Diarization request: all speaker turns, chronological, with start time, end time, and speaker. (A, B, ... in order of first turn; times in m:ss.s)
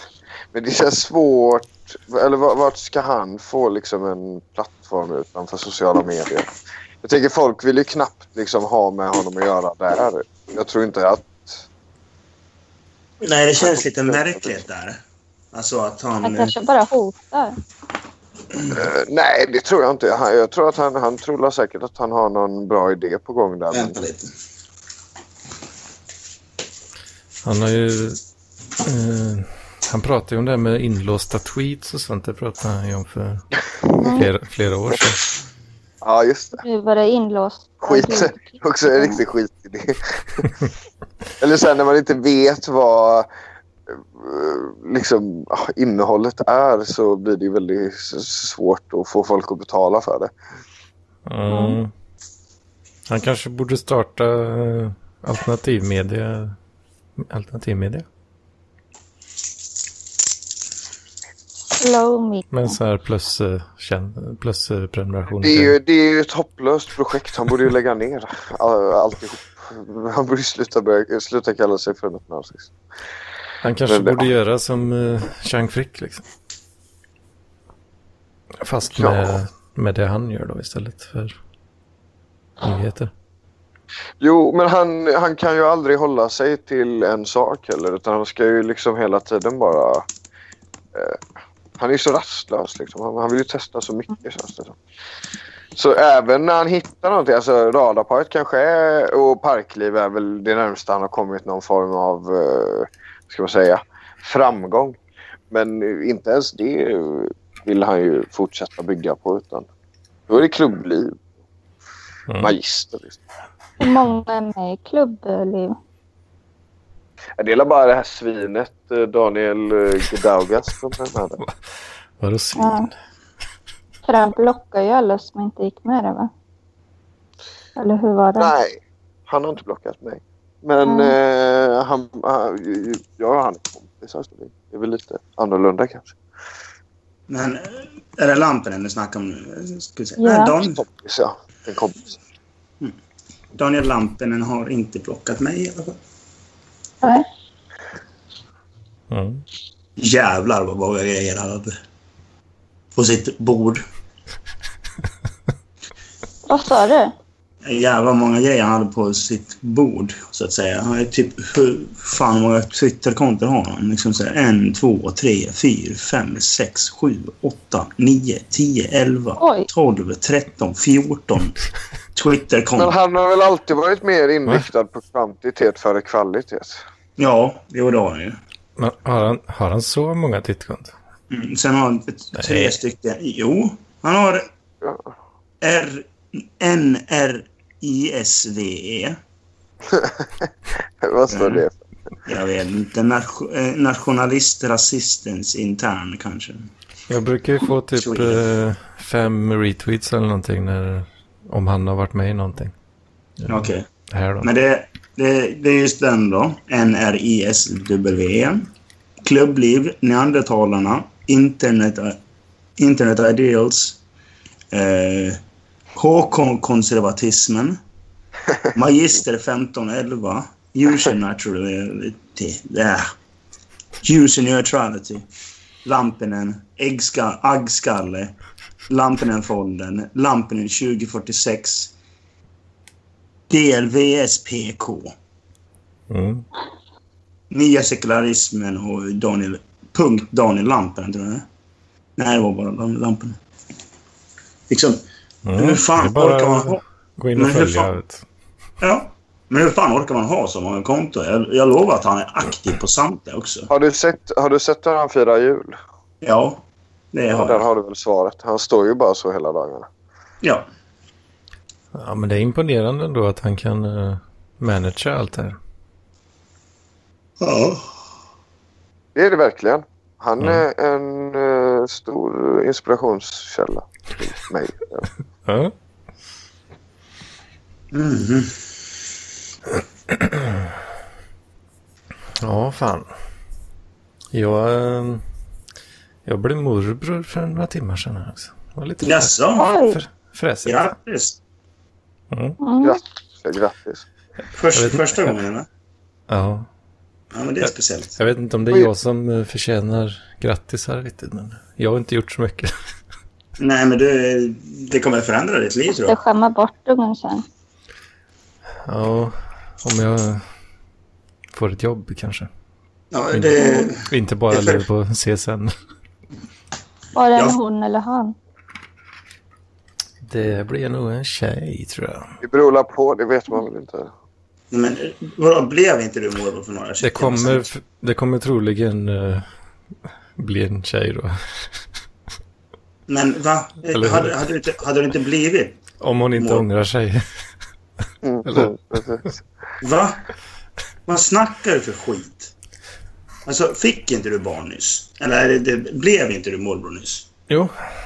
0:00.5-0:06.5 A
0:07.0-0:11.6 A
0:13.2-0:15.0 B
0:13.6-0:14.6 A
0:15.5-0:16.5 B
0:16.2-0:17.6 C
0:18.7-0:24.0 A
0:23.7-0:24.3 B
0:27.4-0:28.2 D
0:28.8-0:33.5 D
0:34.0-0:34.3 C
0:34.1-0:35.2 D
0:36.0-0:36.6 A
0:36.6-0:39.2 C
0:37.8-0:40.5 A
0:41.4-0:43.3 A
0:43.9-0:50.3 A
0:51.3-0:51.9 D
0:51.5-0:51.8 C
0:53.1-0:56.6 D
0:57.2-0:58.1 D
1:01.8-1:02.8 C
1:02.5-1:05.7 D
1:05.4-1:12.7 A
1:13.6-1:16.2 D
1:13.9-1:14.3 A
1:18.6-1:21.4 D
1:18.9-1:19.4 A
1:22.6-1:23.1 D
1:24.2-1:30.1 A
1:30.9-1:31.2 A
1:31.8-1:34.8 A
1:35.8-1:45.0 A
1:45.5-1:49.7 A
1:50.3-1:51.2 A
1:52.3-1:52.5 D
1:52.4-1:53.2 A
1:53.8-1:55.8 C
1:57.4-2:01.4 A
2:02.2-2:02.9 D
2:02.6-2:02.9 C
2:04.1-2:06.3 C
2:07.8-2:08.5 C
2:08.4-2:16.2 A
2:10.8-2:11.2 C
2:17.3-2:20.8 B
2:20.2-2:20.5 C
2:20.6-2:22.2 A
2:23.6-2:26.0 B
2:29.1-2:29.4 D
2:30.0-2:31.7 B
2:33.0-2:33.8 B
2:36.5-2:37.1 C
2:37.6-2:51.6 B
2:49.4-2:49.7 C
2:52.2-2:52.9 B
2:52.8-2:56.8 A
2:57.2-2:58.4 B
2:58.8-3:00.9 D
3:01.3-3:04.5 B
3:02.4-3:02.7 D
3:04.8-3:05.1 A
3:05.6-3:09.2 B
3:09.9-3:10.5 A
3:11.0-3:11.8 A
3:11.3-3:11.6 B
3:12.3-3:16.7 B
3:17.1-3:22.7 D
3:18.0-3:18.4 B
3:23.4-3:24.5 D
3:23.5-3:23.8 B
3:24.4-3:28.7 B
3:29.2-3:32.2 B
3:32.8-3:34.0 B
3:34.7-3:35.4 B
3:36.0-3:37.8 B
3:38.7-3:43.1 B
3:44.0-3:45.3 B
3:45.8-3:48.3 B
3:48.9-3:51.9 B
3:53.5-3:55.1 B
3:56.1-3:56.5 D
3:57.5-4:01.4 B
4:02.2-4:03.4 B
4:04.7-4:05.0 B
4:05.4-4:08.2 D
4:05.6-4:06.8 B
4:07.4-4:07.9 B
4:08.8-4:13.7 B
4:13.7-4:15.8 A
4:16.2-4:16.6 B
4:17.1-4:17.6 B
4:17.3-4:19.9 A
4:20.4-4:20.7 B
4:21.9-4:25.6 D
4:27.4-4:27.9 B
4:29.2-4:35.1 A
4:35.5-4:35.7 D
4:37.9-4:38.6 B
4:40.1-4:40.6 D
4:42.4-4:43.1 D
4:44.3-4:45.2 D
4:46.2-4:50.8 D
4:49.0-4:49.7 B
4:49.6-4:50.0 C
4:50.6-4:51.4 B
4:52.3-4:52.6 D
4:52.6-4:53.0 C
4:52.8-4:54.0 A
4:54.6-4:55.7 B
4:54.8-4:55.3 D
4:56.3-4:56.7 D
4:57.3-4:58.2 B
4:57.6-5:02.7 D
5:03.6-5:06.2 B
5:06.1-5:07.4 C
5:08.9-5:10.4 D
5:11.5-5:12.5 D
5:13.1-5:14.8 B
5:13.3-5:15.7 D
5:13.6-5:13.9 C
5:17.2-5:18.4 C
5:20.2-5:22.3 D
5:22.4-5:24.1 A
5:24.7-5:27.7 B
5:27.0-5:29.5 D
5:30.4-5:31.4 D
5:33.1-5:35.8 B
5:33.9-5:34.4 D
5:36.0-5:37.2 D
5:36.4-5:36.6 B
5:38.2-5:39.3 A
5:38.5-5:38.7 D
5:39.8-5:40.2 B
5:41.1-5:42.5 B
5:43.5-5:47.3 B